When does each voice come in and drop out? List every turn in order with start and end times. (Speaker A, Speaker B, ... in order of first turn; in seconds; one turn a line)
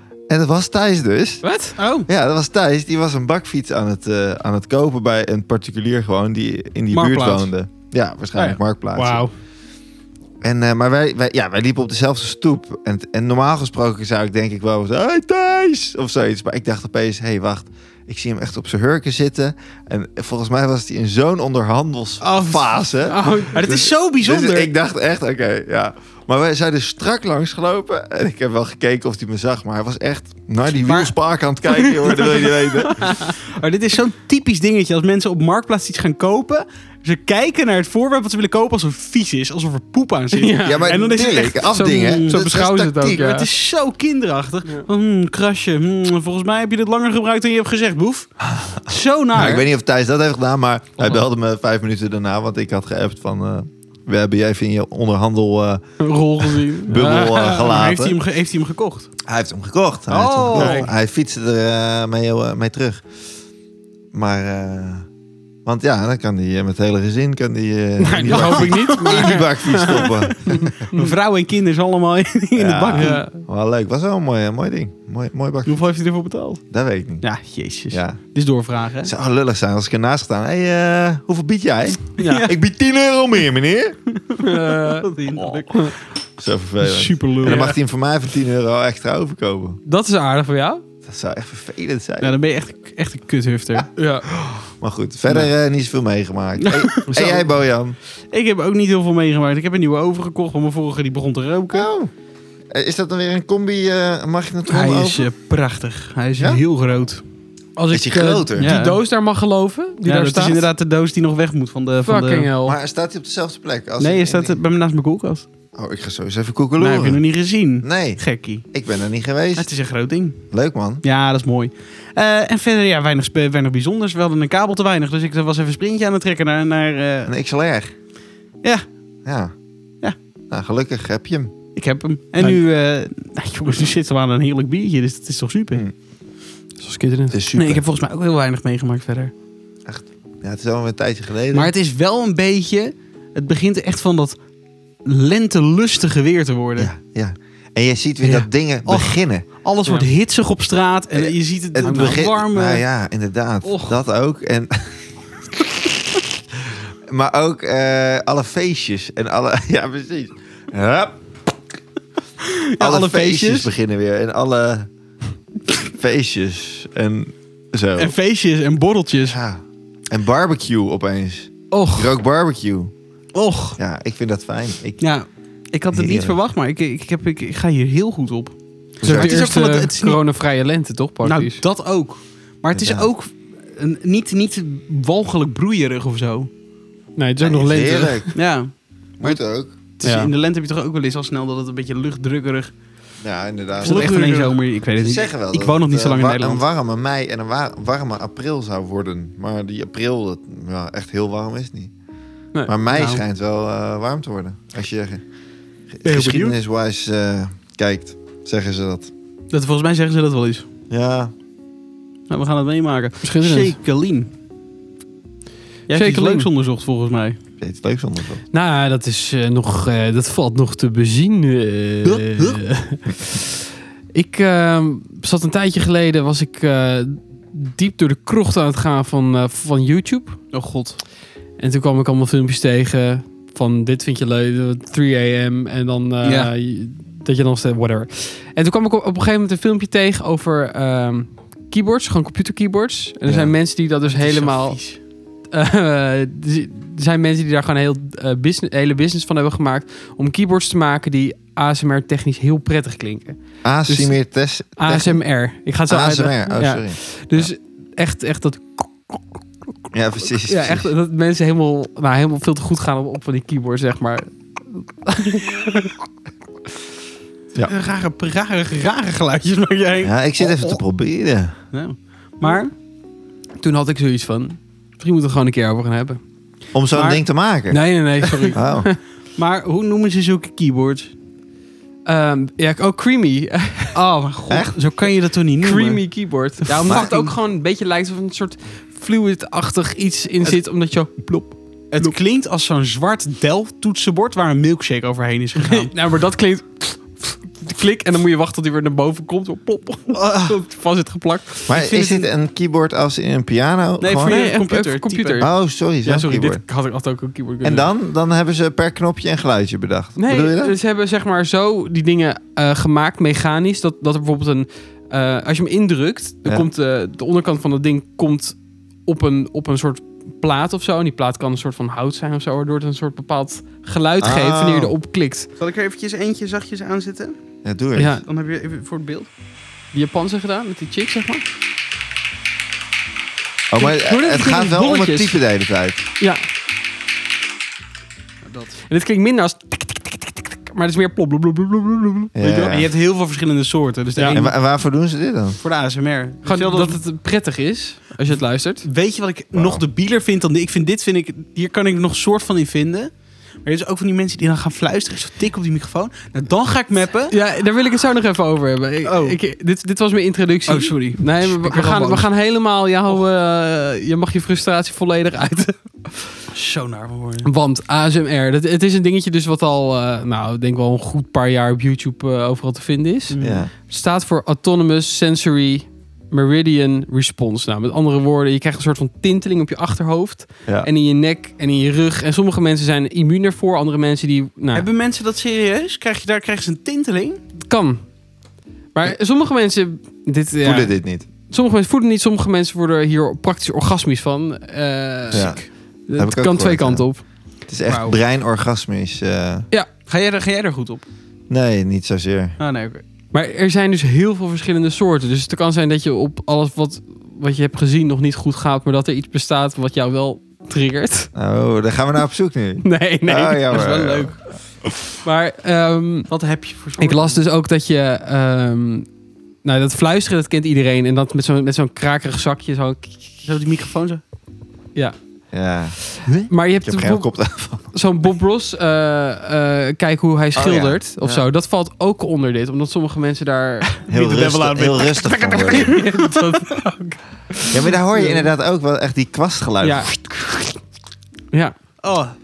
Speaker A: 0.3-1.4
Speaker B: 1.4-1.8
Speaker C: 1.8-2.1
Speaker A: 2.1-9.3
Speaker C: 6.9-7.5
Speaker B: 9.0-9.3
Speaker A: 10.4-33.1
Speaker C: 22.2-22.9
Speaker B: 23.0-23.8
Speaker C: 23.5-24.7
Speaker C: 30.8-31.1
Speaker C: 32.0-32.4
Speaker B: 32.9-33.3
Speaker C: 33.0-42.5
Speaker B: 40.3-43.5
Speaker A: 40.6-43.3
Speaker C: 43.0-48.3
Speaker A: 48.4-55.8
Speaker C: 48.8-49.7
Speaker B: 56.0-57.3
Speaker A: 56.9-58.2
Speaker C: 56.9-59.1
Speaker A: 59.2-63.0
Speaker C: 60.1-60.9
Speaker B: 60.5-60.9
Speaker A: 64.1-65.1
Speaker A: 65.7-70.9
Speaker B: 68.0-71.1
Speaker C: 68.2-70.1
Speaker C: 70.9-73.2
Speaker A: 72.6-75.8
Speaker B: 72.9-73.4
Speaker C: 75.7-76.6
Speaker A: 76.7-77.2
Speaker C: 77.2-79.1
Speaker A: 77.9-78.2
Speaker A: 79.0-84.0
Speaker C: 82.2-82.5
Speaker B: 82.2-82.5
Speaker C: 84.1-86.0
Speaker B: 84.4-85.1
Speaker A: 86.4-89.8
Speaker C: 86.8-87.7
Speaker B: 87.4-87.8
Speaker B: 89.9-90.8
Speaker A: 91.0-92.4
Speaker C: 92.2-93.9
Speaker A: 93.8-98.0
Speaker B: 94.0-94.3
Speaker C: 96.6-97.1
Speaker B: 97.1-97.4
Speaker C: 98.3-101.9
Speaker A: 101.7-102.1
Speaker A: 102.7-105.3
Speaker C: 104.7-107.2
Speaker B: 107.8-110.7
Speaker A: 107.9-108.8
Speaker C: 108.6-109.0
Speaker C: 110.0-112.5
Speaker B: 112.0-112.8
Speaker A: 112.6-114.6
Speaker C: 114.0-115.5
Speaker A: 115.8-117.2
Speaker C: 116.8-118.7
Speaker A: 117.8-119.7
Speaker C: 119.6-120.4
Speaker A: 120.5-121.0
Speaker C: 121.0-127.3
Speaker A: 127.3-127.9
Speaker A: 129.2-129.5
Speaker A: 130.5-131.5
Speaker C: 131.8-135.8
Speaker B: 136.8-137.4
Speaker A: 137.3-137.8
Speaker C: 137.6-139.3
Speaker A: 139.9-141.7
Speaker C: 141.5-144.4
Speaker C: 145.1-146.9
Speaker A: 146.8-149.4
Speaker C: 148.2-152.8
Speaker A: 151.2-154.7
Speaker B: 151.8-152.2
Speaker B: 153.6-154.0
Speaker A: 156.6-161.2
Speaker C: 162.4-163.7
Speaker A: 162.8-164.9
Speaker A: 165.8-168.2
Speaker C: 168.0-169.4
Speaker A: 169.3-172.9
Speaker B: 171.7-172.1
Speaker C: 173.3-173.8
Speaker A: 173.8-175.0
Speaker C: 175.0-180.2
Speaker A: 175.9-176.4
Speaker A: 179.0-179.4
Speaker B: 179.0-181.6
Speaker C: 181.2-186.5
Speaker A: 182.7-183.1
Speaker B: 187.2-188.4
Speaker A: 187.4-188.3
Speaker C: 188.3-192.7
Speaker A: 189.2-189.8
Speaker B: 190.0-190.3
Speaker A: 193.2-194.3
Speaker C: 193.8-196.6
Speaker B: 193.8-194.5
Speaker A: 195.0-201.9
Speaker A: 202.7-205.2
Speaker C: 202.9-203.2
Speaker A: 205.9-209.1
Speaker C: 206.1-206.6
Speaker C: 209.5-210.7
Speaker A: 210.9-211.3
Speaker C: 212.3-214.3
Speaker B: 213.2-213.8
Speaker C: 215.9-217.4
Speaker B: 215.9-216.5
Speaker A: 217.6-218.4
Speaker B: 218.5-223.6
Speaker C: 222.0-222.6
Speaker B: 224.1-230.4
Speaker C: 230.5-231.0
Speaker B: 231.6-244.8
Speaker C: 236.2-236.5
Speaker A: 243.3-243.6
Speaker C: 244.1-245.0
Speaker B: 245.5-254.2
Speaker A: 253.6-255.2
Speaker B: 254.8-259.4
Speaker A: 255.9-257.5
Speaker A: 259.9-260.9
Speaker B: 260.4-265.9
Speaker C: 267.6-270.8
Speaker A: 270.0-271.6
Speaker C: 271.7-272.7
Speaker B: 273.6-276.2
Speaker A: 276.7-277.8
Speaker B: 276.9-279.0
Speaker A: 278.5-278.9
Speaker C: 279.4-281.1
Speaker B: 282.1-284.0
Speaker C: 283.9-286.0
Speaker B: 285.6-292.1
Speaker C: 286.6-287.3
Speaker A: 286.9-287.1
Speaker C: 291.9-295.9
Speaker B: 295.6-301.7
Speaker C: 300.1-300.6
Speaker A: 301.7-304.4
Speaker C: 301.7-302.3
Speaker C: 304.0-305.5
Speaker B: 304.2-305.5
Speaker A: 305.4-306.6
Speaker B: 306.1-307.9
Speaker A: 307.6-310.8
Speaker B: 310.2-325.5
Speaker A: 324.2-324.9
Speaker C: 325.6-327.4
Speaker A: 327.6-328.2
Speaker B: 328.0-328.2
Speaker C: 328.2-329.3
Speaker B: 329.9-331.4
Speaker A: 333.7-336.0
Speaker B: 333.8-335.4
Speaker C: 338.4-338.8
Speaker B: 338.9-342.7
Speaker A: 342.4-342.9
Speaker C: 342.5-344.5
Speaker B: 344.2-344.4
Speaker A: 344.3-345.6
Speaker C: 345.6-347.0
Speaker B: 346.4-348.9
Speaker C: 348.8-353.1
Speaker A: 349.6-349.8
Speaker C: 353.6-357.3
Speaker B: 357.3-366.4
Speaker C: 359.0-359.4
Speaker C: 360.7-362.3
Speaker C: 366.5-367.5
Speaker B: 367.4-384.9
Speaker C: 373.3-373.7
Speaker A: 373.4-373.7
Speaker C: 384.7-387.4
Speaker B: 387.7-388.0
Speaker B: 388.9-390.9
Speaker A: 390.6-391.3
Speaker B: 391.5-397.2
Speaker A: 395.3-395.6
Speaker C: 395.3-395.7
Speaker A: 396.2-397.1
Speaker A: 397.7-399.7
Speaker C: 397.9-398.2
Speaker C: 400.1-401.1
Speaker A: 401.5-402.6
Speaker C: 402.6-403.0
Speaker B: 403.3-411.3
Speaker A: 411.4-414.4
Speaker B: 412.8-413.7
Speaker C: 413.7-414.4
Speaker B: 415.0-416.3
Speaker C: 416.3-417.4
Speaker B: 417.0-419.1
Speaker B: 419.6-423.5
Speaker C: 423.4-424.2
Speaker A: 425.5-426.0
Speaker B: 426.1-427.3
Speaker A: 426.8-427.9
Speaker B: 427.9-434.0
Speaker A: 430.6-431.4
Speaker C: 434.0-436.5
Speaker A: 434.1-436.0
Speaker B: 435.7-437.9
Speaker A: 437.7-440.1
Speaker B: 439.8-440.8
Speaker C: 442.0-442.3